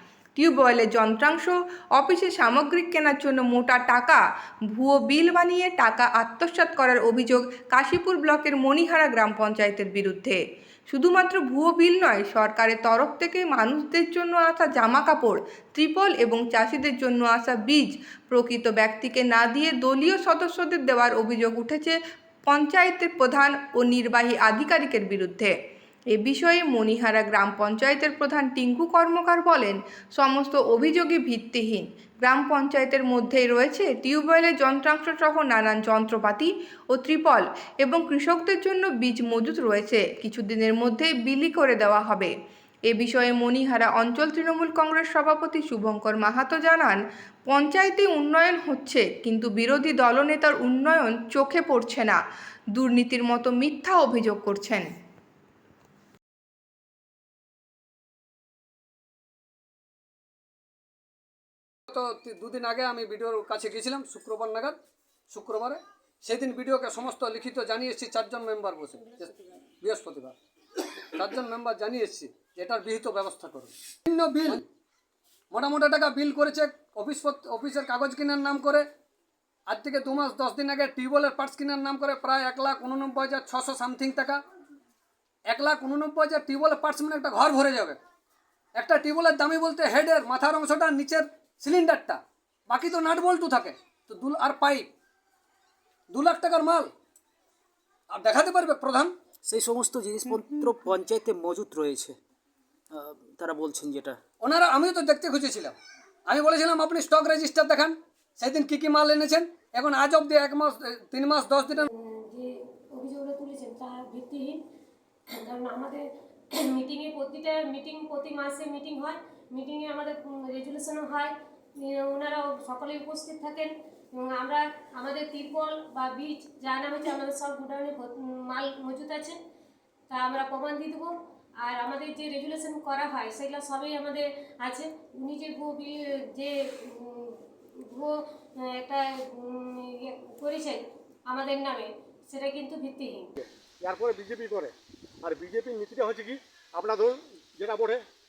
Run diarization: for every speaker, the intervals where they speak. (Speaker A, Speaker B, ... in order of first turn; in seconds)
Speaker A: 0.4-25.5, 26.1-42.3, 42.9-52.2, 52.7-54.9
Speaker B: 61.9-64.8, 65.3-74.6, 75.5-78.9, 79.7-84.4, 85.5-88.0, 88.7-94.9, 96.1-96.9, 98.1-99.1, 104.4-105.8, 106.3-111.9
Speaker C: 99.4-102.2, 102.9-104.2
Speaker D: 111.9-114.6, 115.3-129.4, 130.1-143.3
Speaker E: 143.4-148.0